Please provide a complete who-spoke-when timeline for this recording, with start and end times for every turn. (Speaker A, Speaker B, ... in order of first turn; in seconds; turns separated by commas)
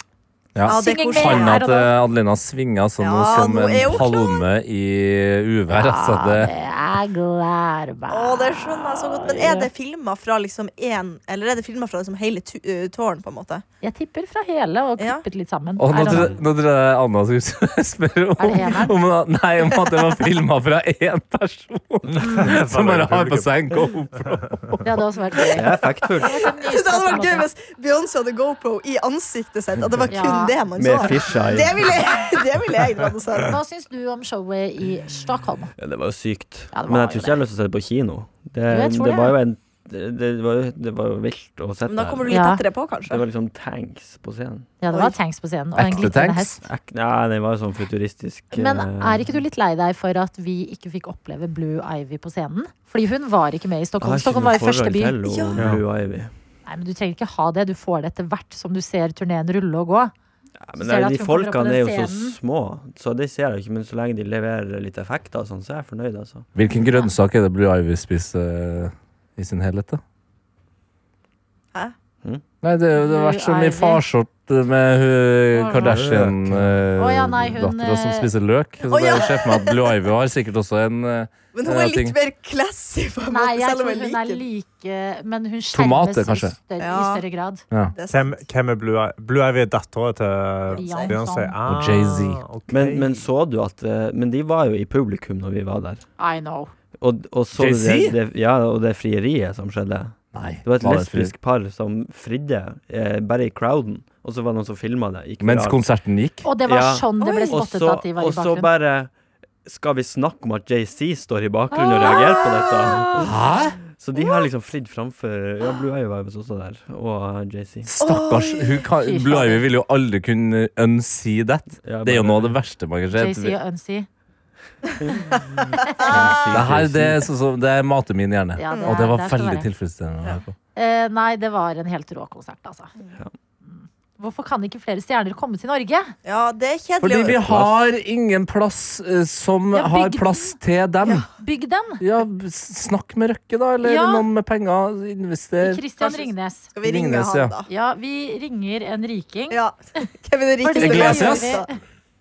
Speaker A: 0.6-6.5, Speaker B: 0.7-1.6, Speaker C: 0.7-1.9, Speaker B: 3.0-4.5, Speaker C: 5.7-9.7, Speaker B: 8.1-13.6, Speaker C: 13.8-16.3, Speaker B: 15.0-15.2, Speaker A: 15.8-24.9, Speaker D: 16.1-16.4, Speaker C: 18.4-19.0, Speaker E: 22.1-23.5, Speaker C: 22.2-22.5, Speaker C: 24.8-27.5, Speaker D: 25.5-26.4, Speaker B: 26.4-33.6, Speaker C: 30.1-31.1, Speaker D: 30.8-31.9, Speaker C: 33.4-35.7, Speaker D: 35.8-42.4, Speaker C: 36.7-37.4, Speaker C: 38.7-39.4, Speaker B: 41.9-43.2, Speaker C: 42.3-42.6, Speaker D: 43.1-44.8, Speaker C: 44.8-46.6, Speaker A: 45.8-46.5, Speaker D: 46.6-49.4, Speaker C: 48.5-55.2, Speaker D: 54.0-56.3, Speaker B: 55.2-55.7, Speaker E: 55.6-55.8, Speaker C: 56.7-60.1, Speaker D: 60.6-66.5, Speaker C: 60.8-62.4, Speaker A: 66.5-70.0, Speaker A: 72.6-82.2, Speaker C: 73.0-74.0, Speaker C: 75.5-76.0, Speaker D: 75.9-76.6, Speaker E: 76.0-76.3, Speaker C: 77.0-78.3, Speaker B: 78.9-80.0, Speaker B: 81.5-84.4, Speaker C: 83.3-87.6, Speaker A: 85.7-86.5, Speaker B: 86.8-87.2, Speaker B: 87.8-88.4, Speaker E: 88.1-93.3, Speaker B: 90.7-91.2, Speaker C: 90.8-91.6, Speaker A: 91.7-92.4, Speaker D: 92.7-96.0, Speaker C: 96.2-96.7, Speaker D: 97.0-105.8, Speaker A: 97.6-98.2, Speaker A: 100.3-101.3, Speaker A: 105.4-106.5, Speaker C: 106.4-108.7, Speaker D: 106.7-109.1, Speaker B: 107.2-107.6, Speaker D: 109.6-113.4, Speaker C: 111.8-113.0, Speaker A: 113.2-113.8, Speaker D: 113.9-117.9, Speaker B: 114.2-114.4, Speaker A: 117.9-123.6, Speaker B: 118.0-118.8, Speaker C: 119.0-119.6, Speaker D: 121.8-122.6, Speaker C: 123.1-124.1, Speaker D: 125.7-127.2, Speaker B: 125.8-126.4, Speaker A: 126.5-130.5, Speaker C: 128.6-129.7, Speaker B: 128.7-129.0, Speaker C: 130.8-132.9, Speaker C: 133.7-136.1, Speaker B: 136.2-137.7, Speaker A: 137.0-141.3, Speaker C: 139.7-140.6, Speaker C: 141.4-142.0, Speaker A: 142.0-145.8, Speaker C: 143.8-144.3, Speaker C: 145.6-146.7, Speaker B: 146.0-147.7, Speaker A: 146.8-147.5, Speaker C: 147.7-149.6, Speaker B: 149.5-151.7, Speaker C: 150.6-151.8, Speaker A: 150.8-151.6